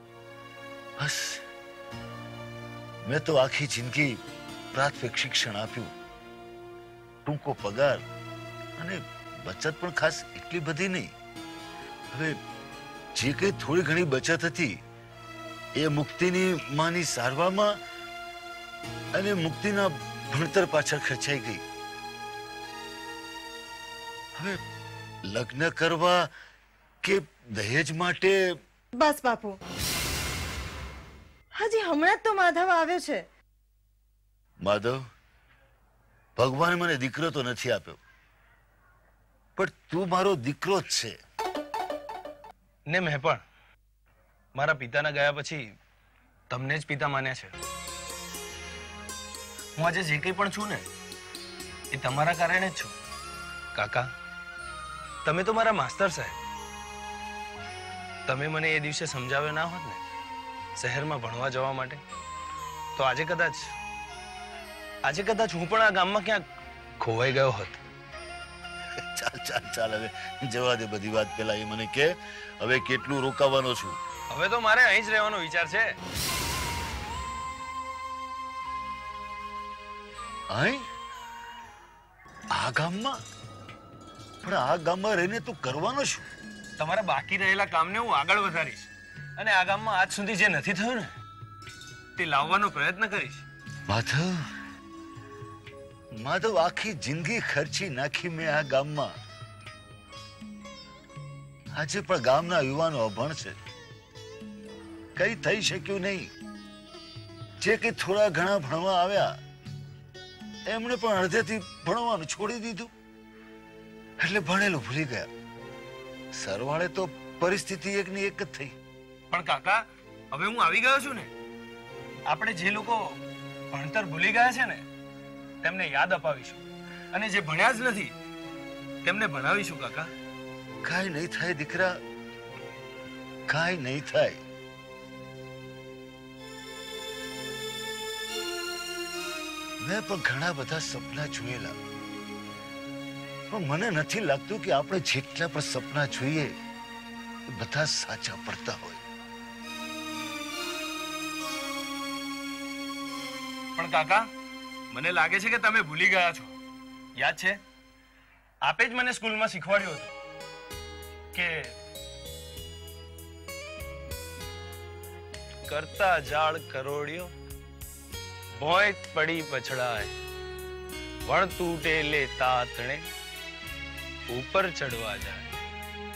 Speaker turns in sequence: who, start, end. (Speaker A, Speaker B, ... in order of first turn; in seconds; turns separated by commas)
Speaker A: 1.0-1.4, Speaker A: 3.0-4.2, Speaker A: 4.7-5.9, Speaker A: 7.2-8.0, Speaker A: 8.8-11.1, Speaker A: 13.1-14.8, Speaker A: 15.8-17.8, Speaker A: 19.1-21.6, Speaker A: 25.3-26.3, Speaker A: 27.0-28.4, Speaker B: 29.0-29.6, Speaker B: 31.6-33.2, Speaker A: 34.6-35.0, Speaker A: 36.4-38.0, Speaker A: 39.5-41.1, Speaker C: 42.9-43.4, Speaker C: 44.5-45.7, Speaker C: 46.5-47.5, Speaker C: 49.8-50.9, Speaker C: 51.9-52.9, Speaker C: 53.7-54.1, Speaker C: 55.2-56.3, Speaker C: 58.3-60.0, Speaker C: 60.8-62.0, Speaker C: 63.0-63.7, Speaker C: 65.0-66.4, Speaker C: 67.0-67.8, Speaker A: 69.0-74.0, Speaker C: 74.3-75.9, Speaker A: 80.5-80.8, Speaker A: 82.5-83.2, Speaker A: 84.4-86.2, Speaker C: 86.8-91.1, Speaker C: 92.2-93.4, Speaker A: 93.9-94.4, Speaker A: 96.2-99.1, Speaker A: 101.7-103.5, Speaker A: 105.2-106.3, Speaker A: 107.6-109.3, Speaker A: 110.7-112.9, Speaker A: 114.2-115.3, Speaker A: 116.3-118.8, Speaker C: 119.3-121.3, Speaker C: 122.3-123.2, Speaker C: 123.7-124.8, Speaker C: 125.6-126.6, Speaker C: 127.1-128.1, Speaker C: 129.0-130.1, Speaker A: 130.8-131.9, Speaker A: 133.5-134.4, Speaker A: 139.8-141.8, Speaker A: 143.5-146.5, Speaker A: 147.5-149.0, Speaker C: 153.8-154.3, Speaker C: 154.9-156.5, Speaker C: 157.2-157.6, Speaker C: 158.6-160.1, Speaker C: 161.3-161.7, Speaker C: 165.7-167.3, Speaker C: 168.6-170.1, Speaker C: 171.3-173.0, Speaker C: 174.3-175.5